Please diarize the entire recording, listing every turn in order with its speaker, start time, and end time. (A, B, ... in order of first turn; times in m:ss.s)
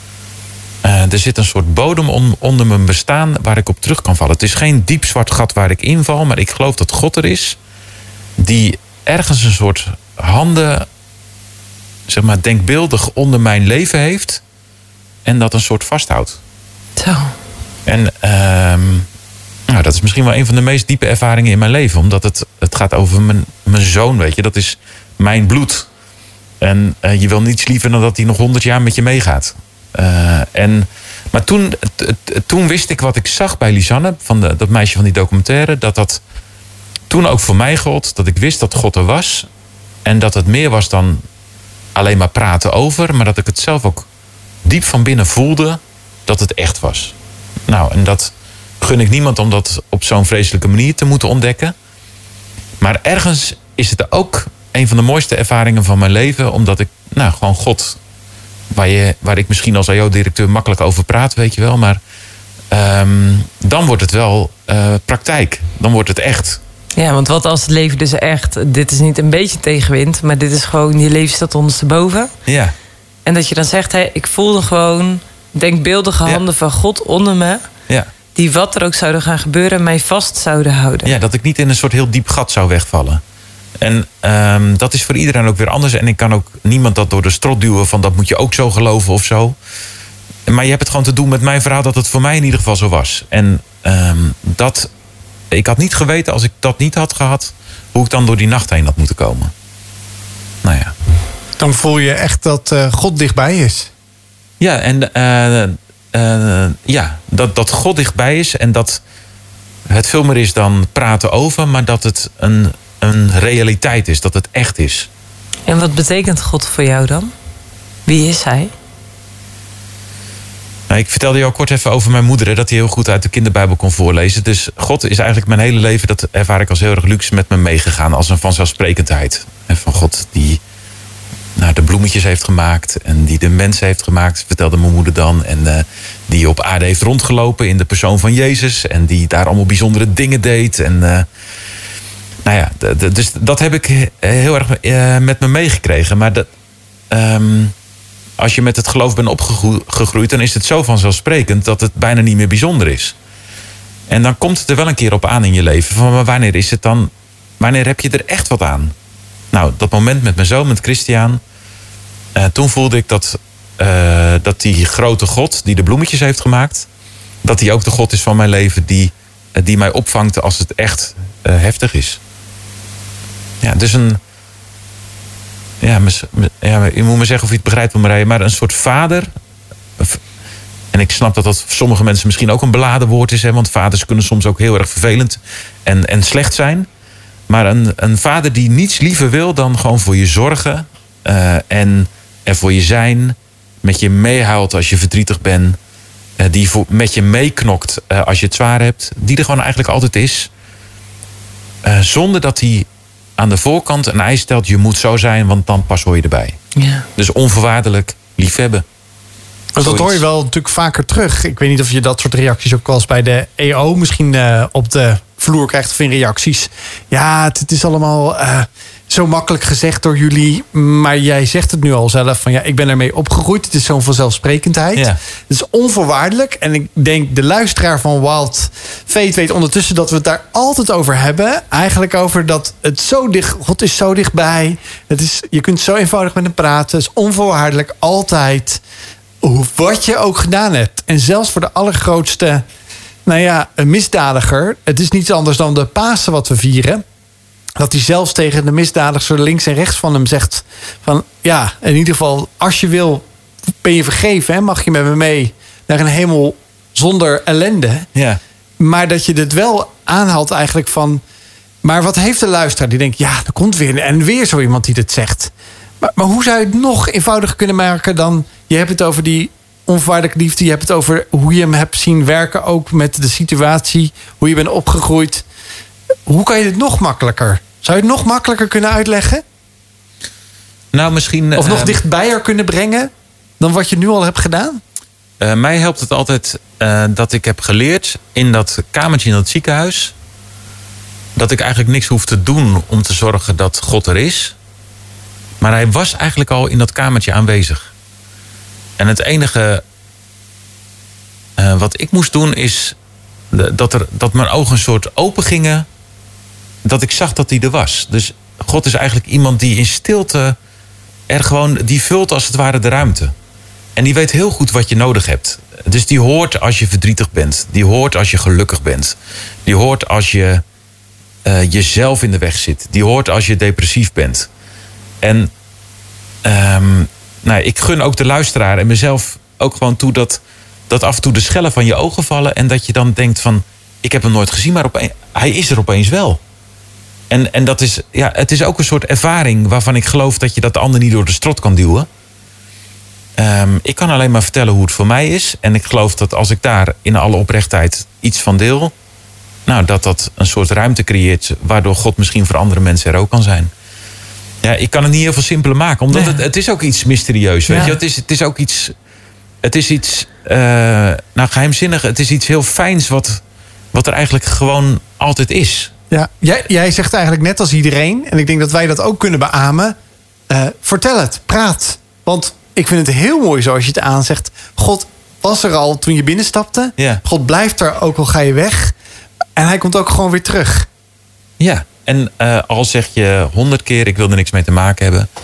0:00.8-0:07.6 A
0:08.4-0:10.9 A
0:12.1-0:14.4 A
0:15.2-0:16.4 A
0:17.0-0:17.3 B
0:17.8-0:19.1 A
0:19.7-0:25.9 A
0:26.6-0:36.2 A
0:37.1-0:39.5 A
0:40.0-0:41.2 A
0:41.9-0:44.1 A
0:44.6-0:47.1 A
0:47.7-0:51.7 A
0:52.8-0:58.0 A
0:58.7-1:02.0 A
1:02.7-1:06.6 A
1:07.0-1:12.3 B
1:12.5-1:12.7 A
1:13.2-1:17.6 B
1:18.3-1:21.1 B
1:21.0-1:23.2 A
1:23.8-1:29.6 A
1:30.5-1:34.9 A
1:35.5-1:39.5 A
1:40.6-1:40.9 A
1:41.6-1:43.9 C
1:44.6-1:49.0 A
1:49.9-1:55.1 A
1:55.7-1:57.3 B
1:58.0-1:58.7 B
2:00.9-2:10.6 A
2:11.6-2:21.3 A
2:22.4-2:26.5 A
2:27.1-2:27.7 A
2:28.4-2:33.1 A
2:34.1-2:38.9 A
2:39.5-2:41.4 A
2:42.4-2:46.9 A
2:47.4-2:52.2 A
2:53.6-2:54.2 A
2:55.8-2:59.3 A
3:00.9-3:06.9 A
3:07.5-3:15.8 A
3:16.4-3:20.5 A
3:21.8-3:26.6 A
3:26.8-3:27.0 B
3:27.2-3:28.8 A
3:29.7-3:58.8 C
3:29.8-3:30.2 A
3:59.4-4:02.6 C
4:03.2-4:07.0 C
4:07.8-4:13.2 C
4:13.8-4:18.1 C
4:18.1-4:18.4 A
4:18.8-4:21.2 C
4:21.8-4:35.4 C
4:36.3-4:39.4 C
4:40.9-4:42.0 A
4:41.6-4:44.8 C
4:45.4-4:50.1 A
4:51.4-4:54.5 A
4:55.6-4:57.9 A
4:59.0-4:59.8 A
5:01.6-5:03.0 A
5:03.5-5:05.9 A
5:06.8-5:10.6 A
5:11.3-5:13.3 A
5:14.0-5:20.6 A
5:21.4-5:24.5 A
5:25.2-5:25.5 A
5:26.4-5:36.4 A
5:37.3-5:42.1 A
5:43.4-5:48.9 A
5:49.6-5:53.7 A
5:54.6-5:58.9 A
5:59.6-6:03.4 A
6:03.9-6:05.9 A
6:06.1-6:10.0 C
6:10.5-6:18.9 C
6:19.6-6:20.9 C
6:21.6-6:25.3 A